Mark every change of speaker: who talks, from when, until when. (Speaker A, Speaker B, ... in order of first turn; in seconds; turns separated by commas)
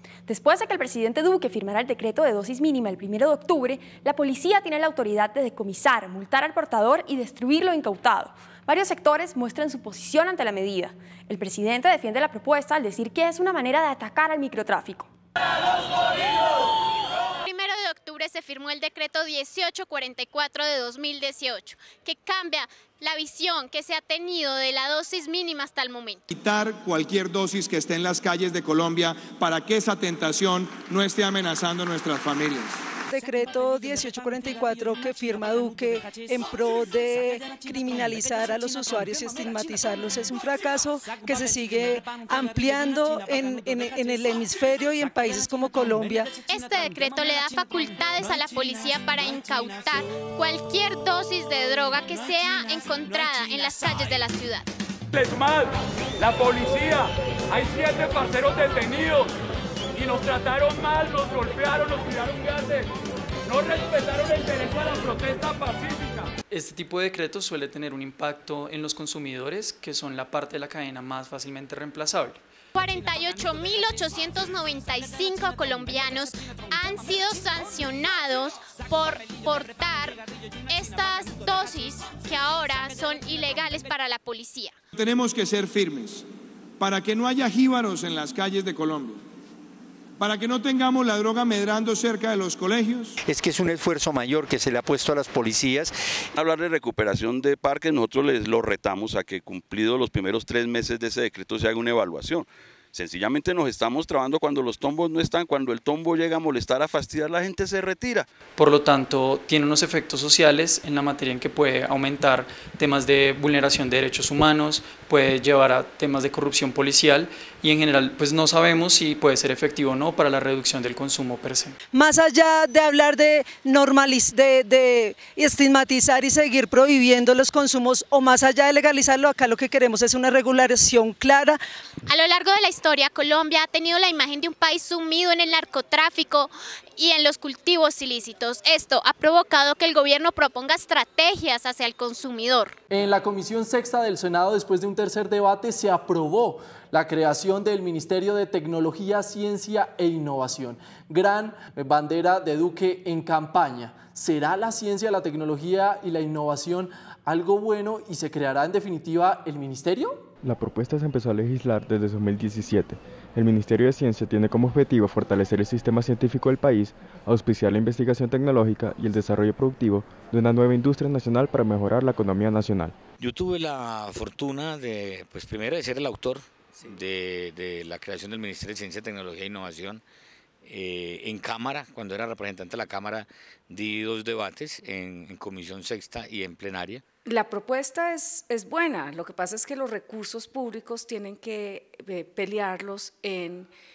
Speaker A: 0.3-15.1, Speaker B: 17.4-26.2, Speaker C: 26.3-32.8, Speaker D: 33.1-46.3, Speaker B: 46.5-54.7, Speaker E: 55.1-59.3, Speaker E: 59.9-62.9, Speaker E: 63.5-66.3, Speaker F: 66.5-72.4, Speaker B: 72.8-84.8, Speaker C: 85.1-86.2, Speaker C: 86.8-89.2, Speaker C: 90.2-93.1, Speaker G: 93.2-96.0, Speaker H: 96.3-108.3, Speaker F: 108.6-121.8, Speaker D: 121.9-131.6, Speaker B: 132.1-142.8, Speaker I: 142.9-160.2, Speaker J: 160.4-173.0, Speaker K: 173.2-180.0, Speaker K: 180.6-187.0, Speaker L: 187.3-193.7